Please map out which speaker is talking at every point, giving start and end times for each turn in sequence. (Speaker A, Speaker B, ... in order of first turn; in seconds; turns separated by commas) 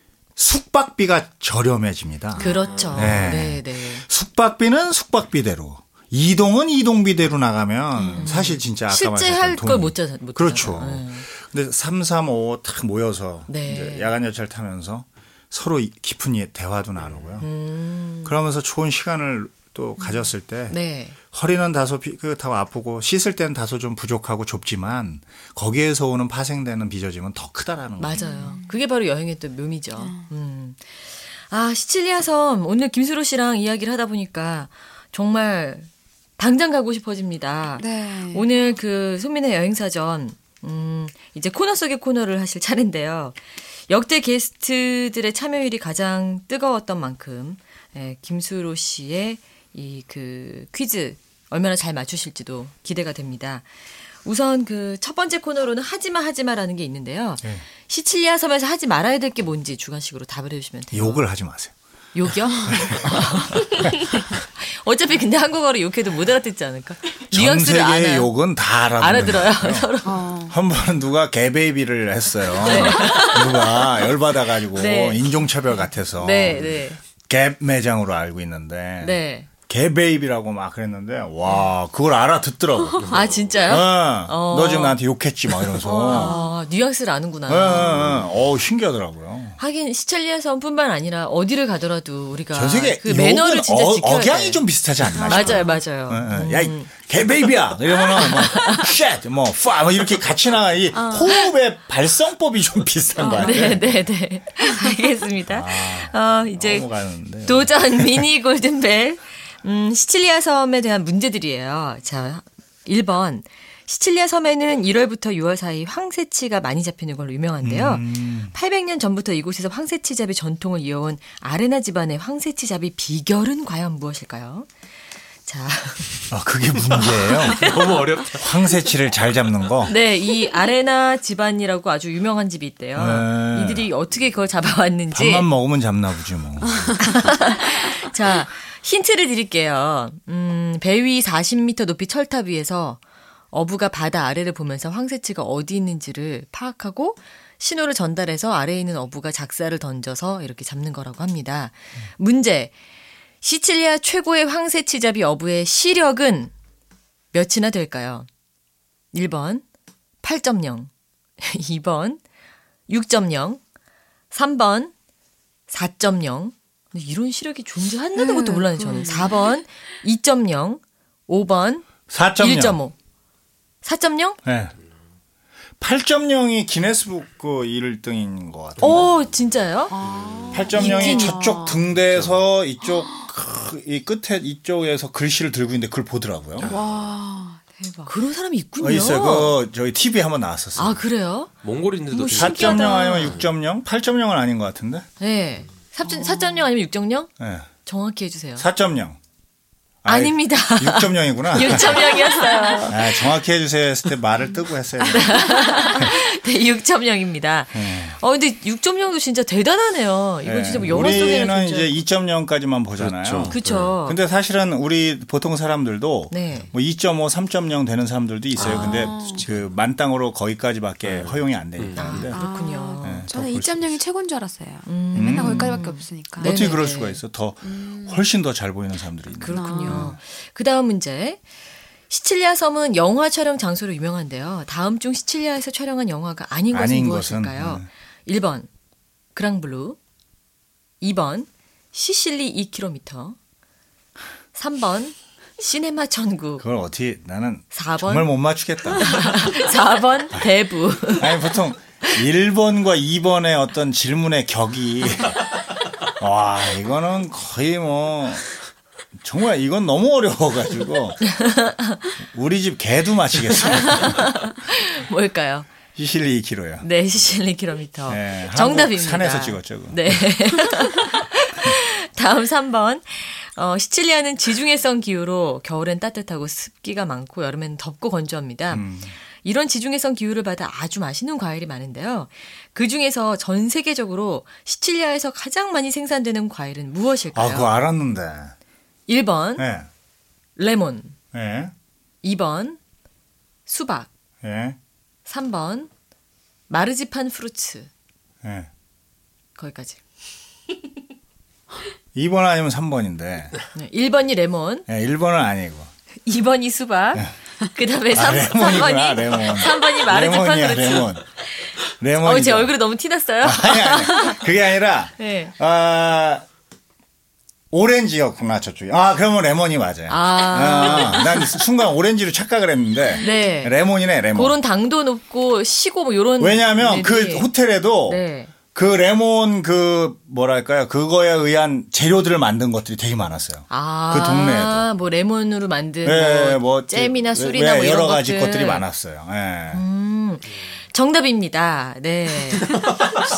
Speaker A: 0.4-17.5, Speaker B: 2.4-2.7, Speaker C: 2.4-4.0, Speaker B: 8.0-8.2, Speaker C: 8.1-11.2, Speaker C: 13.5-14.1, Speaker C: 17.4-18.3, Speaker A: 18.2-28.3, Speaker C: 20.7-21.2, Speaker C: 28.0-61.2, Speaker B: 28.1-28.8, Speaker B: 30.0-30.3, Speaker B: 37.8-38.5, Speaker A: 60.9-61.7, Speaker C: 62.1-68.3, Speaker B: 62.6-62.9, Speaker A: 62.6-63.9, Speaker A: 67.3-69.9, Speaker C: 69.0-70.3, Speaker B: 70.0-70.6, Speaker A: 70.5-86.3, Speaker C: 72.6-74.0, Speaker C: 74.7-75.3, Speaker C: 76.2-77.0, Speaker C: 79.0-79.5, Speaker D: 83.1-83.5, Speaker C: 83.1-85.0, Speaker B: 85.8-86.5, Speaker C: 85.8-88.3, Speaker A: 87.5-89.6, Speaker C: 89.6-94.6, Speaker A: 92.5-104.0, Speaker B: 95.1-95.8, Speaker C: 95.2-96.9, Speaker C: 98.1-98.9, Speaker B: 101.0-101.3, Speaker B: 103.2-103.7, Speaker C: 103.2-106.9, Speaker A: 105.4-108.2, Speaker C: 107.4-124.7, Speaker A: 117.6-118.5, Speaker C: 125.5-126.3, Speaker A: 126.3-129.9, Speaker C: 127.2-128.0, Speaker D: 127.5-128.9, Speaker C: 129.9-135.5, Speaker A: 132.9-133.9, Speaker A: 135.1-137.2, Speaker C: 137.0-143.0, Speaker C: 143.5-152.7, Speaker C: 153.4-156.5, Speaker C: 157.3-158.3, Speaker C: 159.1-159.6, Speaker C: 160.2-162.2, Speaker C: 162.9-163.6, Speaker C: 164.3-164.9, Speaker C: 165.7-172.9, Speaker B: 168.1-169.5, Speaker A: 172.1-172.8, Speaker C: 173.8-174.4, Speaker A: 174.4-174.7, Speaker A: 175.8-179.3, Speaker C: 178.8-179.9, Speaker B: 179.9-181.9, Speaker D: 180.0-180.8, Speaker A: 180.5-186.7, Speaker C: 180.7-181.4, Speaker D: 182.1-182.4, Speaker B: 182.8-183.2, Speaker D: 186.6-186.9, Speaker B: 186.7-188.1, Speaker C: 188.1-189.6, Speaker A: 188.8-191.0, Speaker C: 190.8-191.5, Speaker D: 191.6-193.5, Speaker C: 192.1-193.4, Speaker A: 192.3-195.1, Speaker C: 195.2-197.3, Speaker A: 197.4-197.7, Speaker C: 197.8-198.7, Speaker A: 198.6-199.2, Speaker A: 200.0-202.2, Speaker C: 200.1-203.3, Speaker B: 202.0-202.8, Speaker A: 202.9-206.1, Speaker C: 205.1-212.0, Speaker B: 205.2-205.9, Speaker A: 207.7-208.2, Speaker A: 210.4-222.4, Speaker D: 210.8-211.4, Speaker D: 212.9-213.9, Speaker C: 213.5-214.2, Speaker C: 216.3-216.7, Speaker D: 218.6-219.6, Speaker C: 218.6-219.2, Speaker B: 218.7-219.4, Speaker D: 221.0-222.3, Speaker C: 221.9-223.3, Speaker B: 222.1-226.8, Speaker A: 223.0-224.0, Speaker C: 224.8-227.2, Speaker A: 225.1-230.2, Speaker B: 227.6-228.2, Speaker C: 229.4-231.4, Speaker B: 229.5-230.2, Speaker C: 232.1-238.7, Speaker A: 236.7-237.9, Speaker C: 239.3-240.0, Speaker C: 241.0-243.4, Speaker C: 244.5-246.6, Speaker A: 246.6-249.5, Speaker C: 247.7-248.3, Speaker C: 248.9-251.5, Speaker A: 251.1-255.4, Speaker A: 256.2-258.4, Speaker A: 259.2-261.3, Speaker C: 261.2-262.1, Speaker A: 262.2-264.3, Speaker C: 263.6-265.7, Speaker A: 265.9-266.9, Speaker C: 266.8-278.9, Speaker A: 268.1-270.6, Speaker A: 278.7-279.1, Speaker C: 279.4-287.8, Speaker A: 287.3-288.5, Speaker C: 289.1-289.7, Speaker A: 289.6-289.9, Speaker C: 290.6-291.2, Speaker A: 291.3-291.7, Speaker C: 292.2-292.8, Speaker C: 293.7-294.1, Speaker A: 294.4-294.8, Speaker C: 295.2-295.9, Speaker C: 296.7-297.9, Speaker A: 298.4-298.7, Speaker C: 299.6-300.0, Speaker A: 302.1-303.5, Speaker C: 303.7-304.9, Speaker A: 304.9-305.9, Speaker C: 306.2-314.4, Speaker A: 308.1-311.2, Speaker A: 312.0-312.7, Speaker A: 313.4-316.4, Speaker C: 315.2-315.5, Speaker A: 317.7-324.6, Speaker C: 320.1-321.5, Speaker C: 323.2-323.8, Speaker C: 324.3-327.5, Speaker A: 326.4-334.9, Speaker C: 328.1-328.5, Speaker C: 333.7-338.8, Speaker A: 336.0-339.8, Speaker C: 339.7-342.9